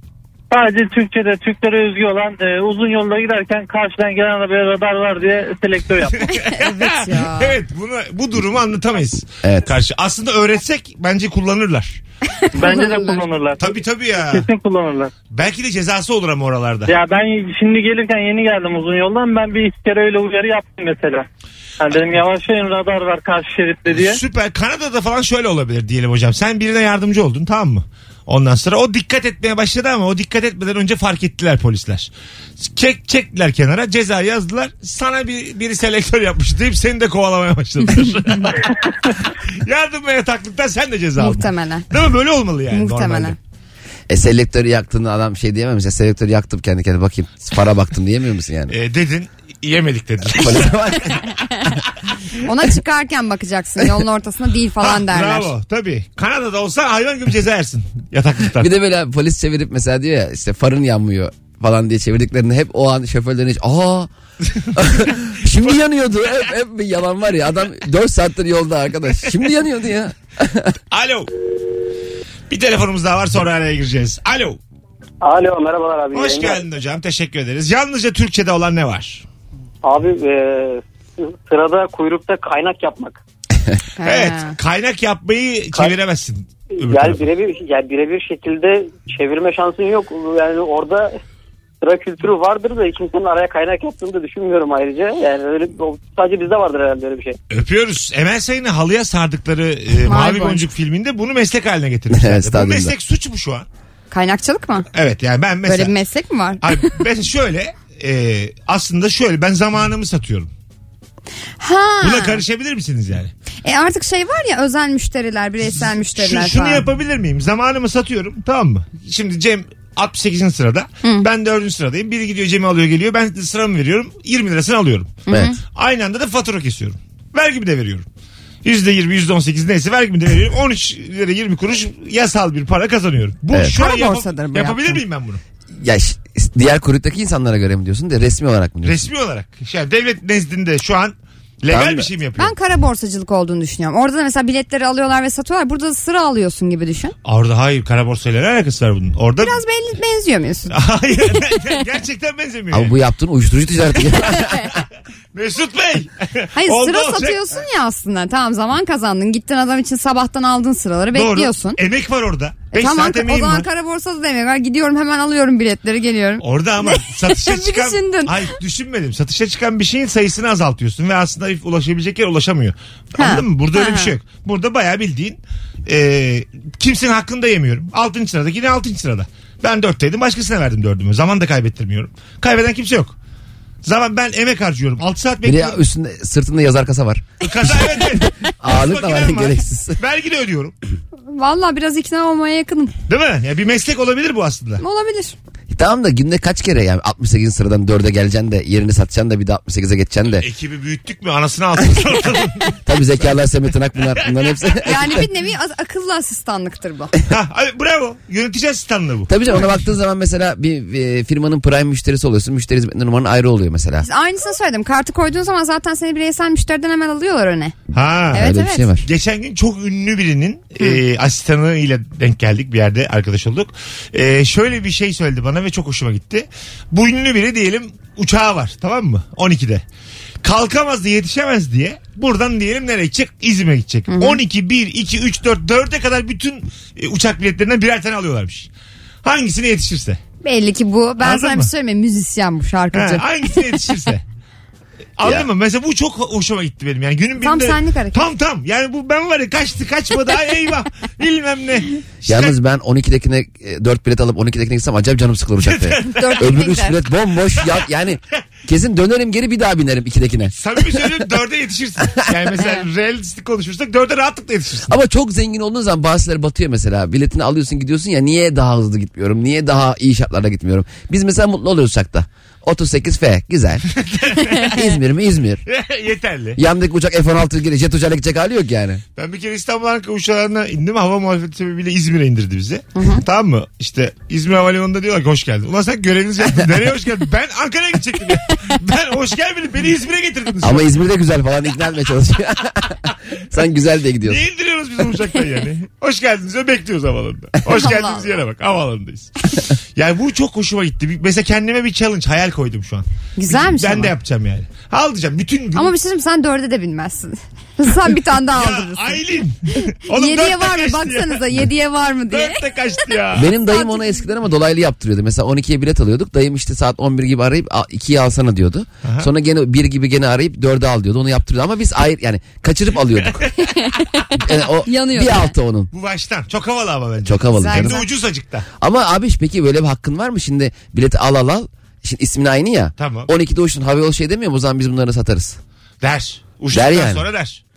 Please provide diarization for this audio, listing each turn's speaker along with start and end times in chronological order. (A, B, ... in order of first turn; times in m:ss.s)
0:00.5-0:06.2 A
0:06.2-0:12.0 B
0:06.3-0:07.6 C
0:09.4-0:09.7 D
0:12.5-0:13.8 A
0:12.6-0:13.2 C
0:13.6-0:14.4 B
0:14.3-0:15.1 A
0:15.3-0:16.9 B
0:16.9-0:21.3 A
0:21.8-0:24.2 A
0:23.9-0:43.4 B
0:41.2-0:41.9 C
0:42.7-0:43.4 C
0:44.1-0:48.8 D
0:48.7-0:51.1 B
0:50.3-0:51.2 D
0:52.4-0:55.5 C
0:54.8-0:58.7 B
0:58.6-1:04.1 D
1:04.7-1:10.8 D
1:10.9-1:11.3 B
1:12.5-1:14.6 B
1:15.2-1:16.6 E
1:16.1-1:19.2 B
1:19.8-1:23.2 E
1:24.0-1:24.6 C
1:24.0-1:27.3 B
1:26.8-1:31.2 E
1:31.8-1:37.4 E
1:37.5-1:43.7 B
1:40.0-1:40.6 C
1:42.1-1:42.9 D
1:44.1-1:44.9 C
1:44.9-1:45.9 B
1:45.6-1:46.9 C
1:46.6-1:50.5 B
1:51.6-1:52.4 C
1:52.0-1:53.3 B
1:53.6-1:56.8 C
1:55.6-2:05.2 B
2:05.3-2:05.6 C
2:05.3-2:05.6 D
2:05.7-2:08.1 B
2:08.6-2:15.4 B
2:13.6-2:15.0 C
2:15.7-2:19.0 D
2:18.8-2:22.6 B
2:21.7-2:22.1 D
2:22.4-2:27.2 C
2:27.2-2:29.6 B
2:29.4-2:30.7 C
2:30.7-2:33.0 B
2:32.7-2:34.7 D
2:35.3-2:37.4 B
2:36.6-2:41.8 C
2:41.1-2:43.7 B
2:42.7-2:48.5 C
2:46.4-3:03.2 B
2:53.2-2:54.1 C
3:03.8-3:05.8 B
3:05.4-3:08.0 D
3:07.4-3:10.8 B
3:08.6-3:10.0 D
3:11.3-3:12.9 C
3:13.1-3:14.8 B
3:14.8-3:15.4 C
3:15.7-3:20.5 D
3:20.4-3:22.8 B
3:22.8-3:25.3 D
3:24.2-3:24.8 B
3:24.8-3:27.1 C
3:27.3-3:29.3 B
3:29.3-3:34.1 D
3:34.0-3:37.8 C
3:37.9-3:49.8 B
3:38.3-3:39.1 D
3:38.3-3:38.9 C
3:50.4-3:58.7 B
3:54.1-3:54.4 C
3:59.2-4:00.2 B
4:00.4-4:03.2 C
4:01.2-4:01.7 B
4:02.9-4:04.2 B
4:05.2-4:12.6 B
4:07.4-4:08.2 C
4:12.3-4:21.2 D
4:15.6-4:16.5 B
4:16.0-4:17.0 C
4:20.6-4:25.0 B
4:24.9-4:33.9 D
4:33.9-4:34.9 B
4:34.6-4:35.6 D
4:35.7-4:36.6 B
4:36.6-4:39.0 D
4:39.2-4:50.9 B
4:43.0-4:43.2 C
4:50.6-4:54.4 D
4:54.2-5:05.9 B
4:57.7-4:58.3 C
5:03.4-5:04.1 C
5:05.8-5:09.2 C
5:08.5-5:11.7 B
5:10.1-5:12.6 C
5:12.3-5:13.5 B
5:13.3-5:23.5 D
5:13.7-5:14.2 C
5:19.0-5:19.3 B
5:23.6-5:25.5 C
5:24.4-5:25.9 D
5:25.9-5:28.7 B
5:27.2-5:28.0 D
5:27.5-5:28.1 C
5:28.8-5:35.6 D
5:33.0-5:33.3 B
5:36.0-5:37.6 B
5:36.7-5:37.3 D